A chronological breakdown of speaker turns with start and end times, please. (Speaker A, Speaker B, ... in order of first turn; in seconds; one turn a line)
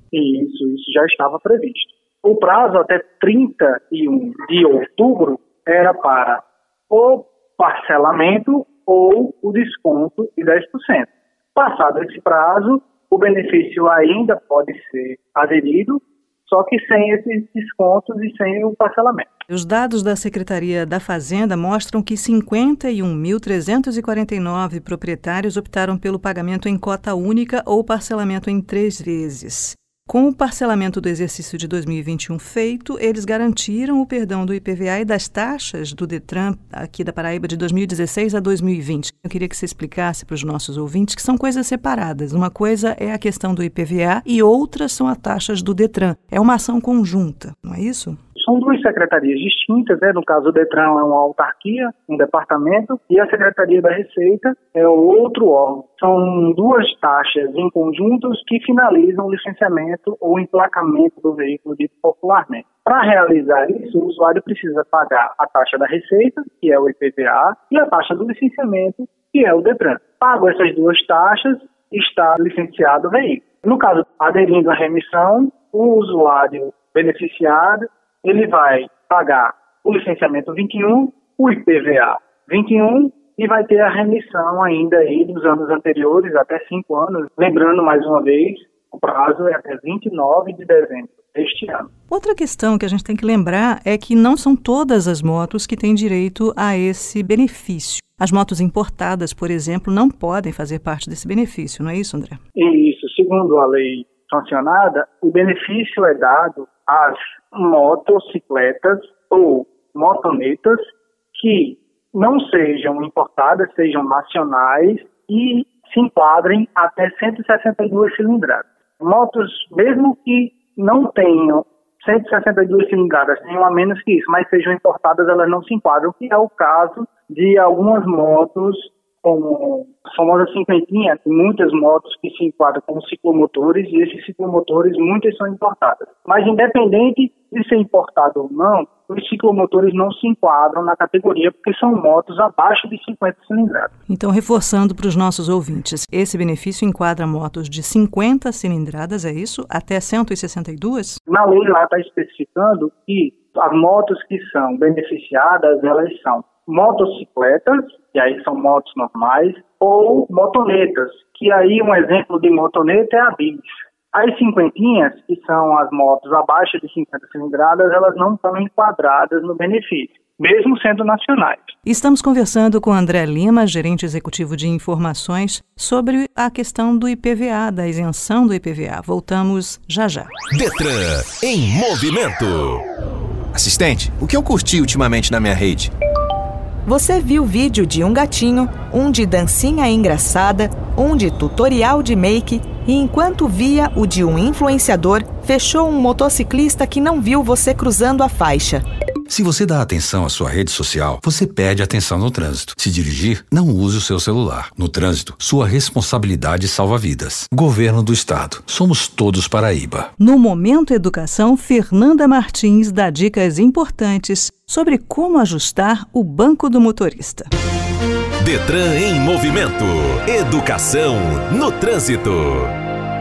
Speaker A: 0.1-19.3
Speaker B: 19.5-48.2
Speaker A: 48.4-91.9
Speaker B: 92.1-102.4
Speaker A: 102.6-143.9
Speaker B: 144.1-151.2
Speaker A: 151.3-171.8
Speaker B: 171.8-180.3
Speaker C: 180.5-182.8
Speaker D: 183.5-185.9
Speaker E: 186.9-198.8
Speaker F: 199.3-210.1
Speaker B: 210.2-217.5
Speaker C: 218.4-222.8